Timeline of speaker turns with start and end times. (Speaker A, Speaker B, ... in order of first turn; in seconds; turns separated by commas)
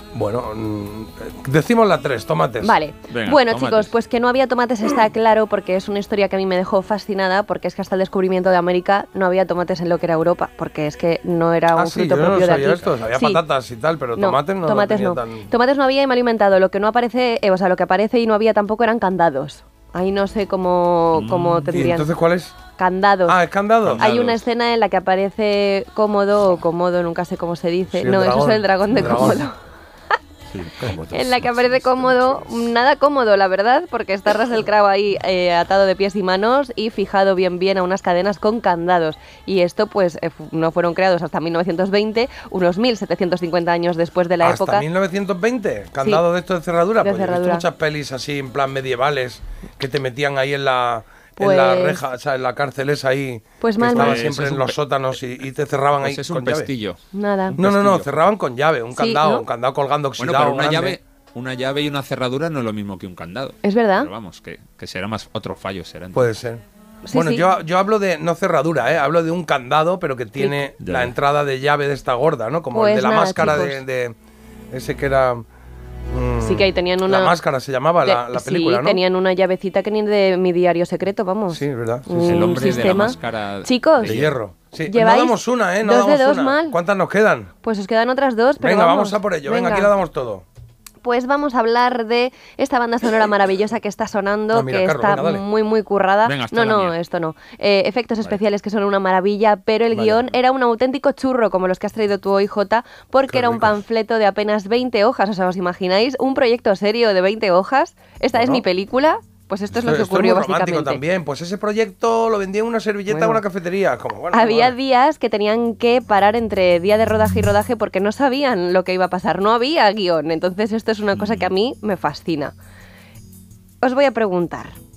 Speaker A: 0.1-2.7, Speaker B: 2.6-13.4, Speaker C: 3.1-3.9, Speaker A: 11.7-15.5, Speaker B: 14.2-22.1, Speaker C: 21.1-21.7, Speaker A: 21.7-22.5, Speaker B: 22.8-29.5, Speaker A: 23.3-24.1, Speaker C: 23.8-24.4, Speaker A: 27.9-29.4, Speaker C: 30.5-32.6, Speaker B: 30.9-44.9, Speaker A: 44.4-56.7, Speaker B: 47.0-47.6, Speaker B: 51.4-52.0, Speaker B: 53.6-54.3, Speaker C: 53.9-54.8, Speaker C: 56.0-57.0, Speaker B: 57.1-57.6, Speaker C: 57.5-58.2, Speaker A: 57.6-61.0, Speaker B: 58.9-59.4, Speaker C: 60.2-66.3, Speaker B: 63.6-64.1, Speaker A: 66.1-74.1, Speaker B: 67.0-67.5, Speaker C: 70.8-71.1, Speaker B: 72.7-73.8, Speaker C: 73.4-73.6, Speaker A: 74.7-75.4, Speaker A: 76.1-79.0, Speaker B: 76.4-77.3, Speaker B: 78.0-84.1, Speaker A: 81.5-82.5, Speaker C: 82.2-84.3, Speaker A: 84.0-87.5, Speaker B: 84.8-86.8, Speaker B: 87.6-89.9, Speaker A: 88.6-90.4, Speaker B: 91.0-111.0, Speaker A: 94.5-95.4, Speaker C: 96.2-96.9, Speaker A: 99.9-100.3, Speaker A: 103.3-103.7, Speaker A: 108.3-108.6, Speaker A: 109.7-114.8, Speaker B: 113.1-113.4, Speaker B: 114.3-122.5, Speaker B: 123.8-124.8